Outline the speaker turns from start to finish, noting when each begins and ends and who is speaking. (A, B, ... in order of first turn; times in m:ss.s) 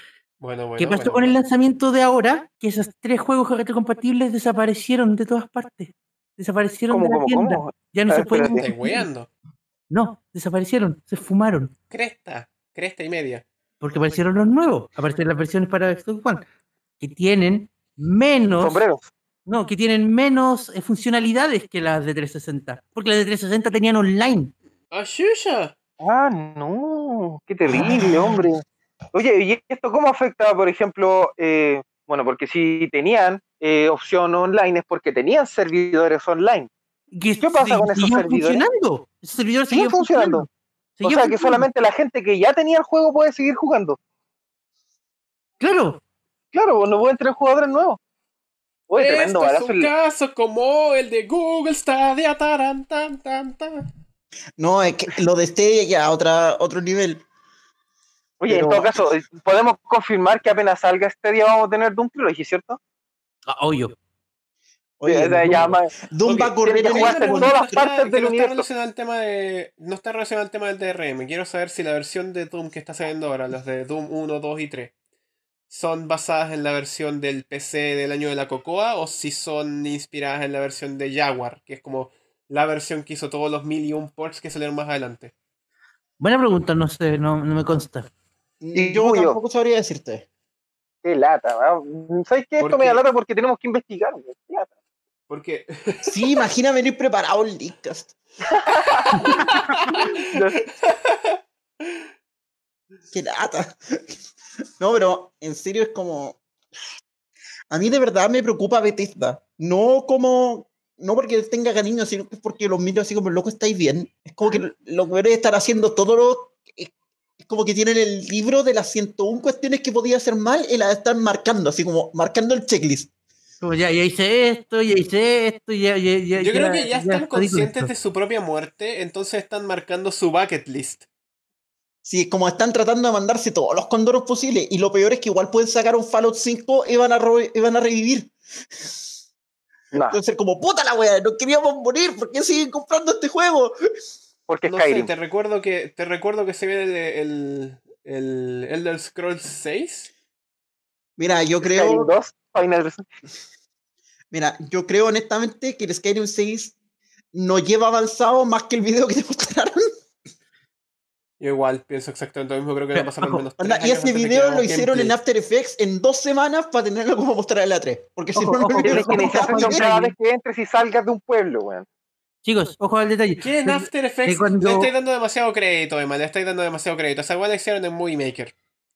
0:00.4-0:01.3 A
0:00.8-0:09.1 B
0:06.9-0:08.6 C
0:08.5-0:09.3 A
0:09.9-0:11.7 B
0:11.9-0:13.4 A
0:13.8-0:16.4 B
0:17.0-0:18.8 B
0:18.6-0:19.1 C
0:19.4-0:24.5 B
0:24.9-0:25.7 A
0:26.0-0:36.7 C
0:27.7-0:28.4 B
0:37.1-0:41.6 B
0:37.4-0:38.6 C
0:39.7-0:40.5 C
0:41.0-0:44.0 C
0:45.6-0:46.0 B
0:46.5-0:48.0 C
0:48.9-0:49.9 C
0:48.9-0:53.8 A
0:54.6-0:57.2 D
0:58.4-1:02.8 C
0:58.5-0:59.1 D
1:03.5-1:03.9 B
1:05.0-1:07.8 D
1:05.0-1:05.9 C
1:06.2-1:14.9 A
1:06.6-1:08.7 C
1:15.7-1:25.3 A
1:26.2-1:28.1 B
1:28.6-1:30.3 D
1:28.7-1:29.4 C
1:31.0-1:34.7 C
1:32.6-1:33.0 A
1:35.3-1:36.2 A
1:36.0-1:38.1 D
1:38.6-1:39.4 C
1:39.7-1:40.2 A
1:39.9-1:40.6 C
1:40.8-1:41.3 A
1:43.1-1:44.1 D
1:44.8-1:46.4 D
1:47.7-2:03.1 D
2:03.6-2:07.9 B
2:06.4-2:11.0 A
2:12.0-2:18.3 D
2:19.9-2:20.2 C
2:20.0-2:23.8 D
2:24.5-2:25.1 C
2:24.7-2:30.1 A
2:31.2-2:32.1 D
2:31.6-2:33.1 C
2:34.3-2:36.7 D
2:37.3-2:39.8 D
2:41.4-2:45.2 A
2:42.9-2:43.5 B
2:43.6-2:49.9 D
2:48.3-2:50.1 B
2:48.8-2:51.9 C
2:52.4-2:54.9 B
2:53.4-2:58.5 A